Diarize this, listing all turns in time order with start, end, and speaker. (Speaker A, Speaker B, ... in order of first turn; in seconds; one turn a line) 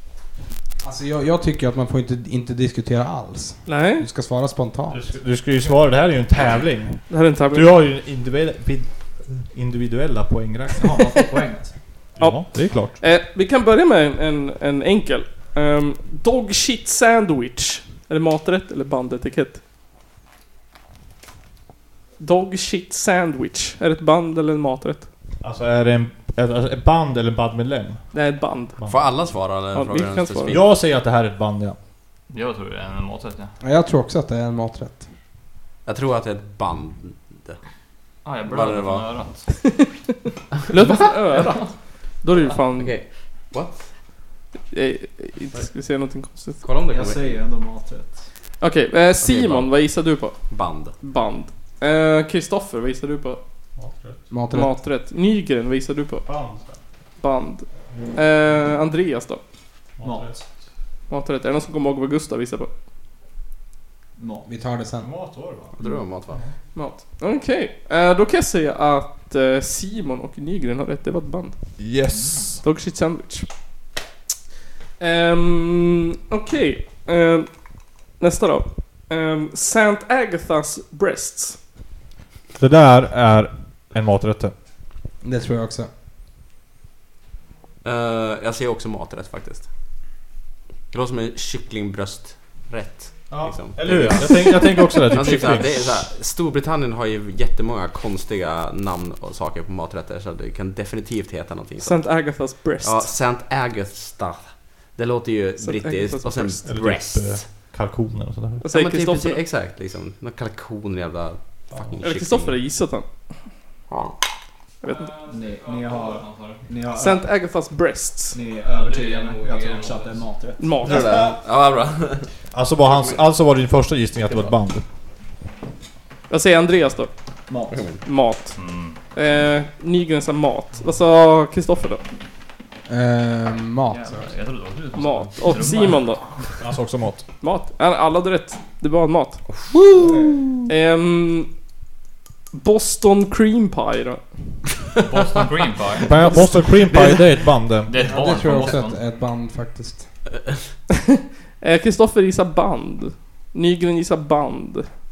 Speaker A: 0.8-5.0
Speaker B: 3.6-4.0
Speaker C: 4.9-11.4
Speaker B: 7.1-7.8
Speaker D: 10.8-11.8
Speaker C: 12.2-13.0
Speaker B: 12.2-19.6
Speaker B: 22.2-25.1
Speaker C: 25.4-28.1
Speaker B: 28.1-28.8
Speaker E: 28.9-30.7
Speaker B: 29.7-30.6
Speaker C: 30.5-31.8
Speaker F: 32.3-33.5
Speaker A: 33.6-35.1
Speaker E: 35.9-37.6
Speaker F: 38.2-39.8
Speaker E: 38.5-39.1
Speaker B: 40.7-42.9
Speaker F: 41.3-41.7
Speaker E: 42.3-43.9
Speaker B: 44.7-46.6
Speaker E: 46.6-47.4
Speaker D: 46.9-48.3
Speaker B: 48.6-50.5
Speaker E: 49.2-49.7
Speaker E: 50.5-51.0
Speaker B: 51.0-53.4
Speaker C: 53.8-54.2
Speaker A: 54.3-54.7
Speaker B: 54.5-56.2
Speaker C: 56.2-56.8
Speaker B: 57.2-59.4
Speaker C: 60.0-60.5
Speaker D: 60.0-60.4
Speaker B: 61.1-62.7
Speaker D: 64.2-64.7
Speaker A: 64.5-65.1
Speaker C: 65.0-65.8
Speaker E: 65.8-66.4
Speaker B: 66.7-71.8
Speaker C: 71.8-72.6
Speaker B: 72.6-73.5
Speaker B: 75.0-81.6
Speaker C: 82.6-84.5
Speaker A: 85.2-85.9
Speaker E: 87.8-89.7
Speaker E: 90.9-107.5
Speaker C: 93.3-96.1
Speaker B: 101.8-103.1
Speaker B: 105.6-106.6
Speaker C: 106.6-108.6
Speaker B: 108.6-109.4
Speaker E: 108.7-112.6
Speaker C: 111.7-112.0
Speaker B: 112.0-113.1
Speaker E: 113.9-114.1
Speaker B: 114.8-115.1
Speaker F: 114.9-116.7
Speaker D: 115.3-117.3
Speaker B: 116.9-118.4
Speaker D: 118.3-121.3
Speaker F: 118.5-120.4
Speaker B: 120.6-121.0
Speaker E: 120.8-122.3
Speaker C: 120.9-121.2
Speaker C: 122.5-124.8
Speaker B: 126.3-127.1
Speaker D: 127.5-128.0
Speaker B: 128.0-128.6
Speaker F: 128.5-129.0
Speaker B: 129.1-132.0
Speaker A: 132.9-134.3
Speaker F: 133.9-136.2
Speaker B: 134.9-136.2
Speaker C: 136.6-137.2
Speaker B: 137.4-139.4
Speaker E: 139.5-140.4
Speaker D: 140.0-140.4
Speaker B: 140.7-141.5
Speaker B: 142.5-144.4
Speaker F: 145.0-146.4
Speaker C: 146.0-148.1
Speaker E: 146.9-147.2
Speaker F: 147.9-149.0
Speaker A: 148.0-150.1
Speaker B: 151.6-154.9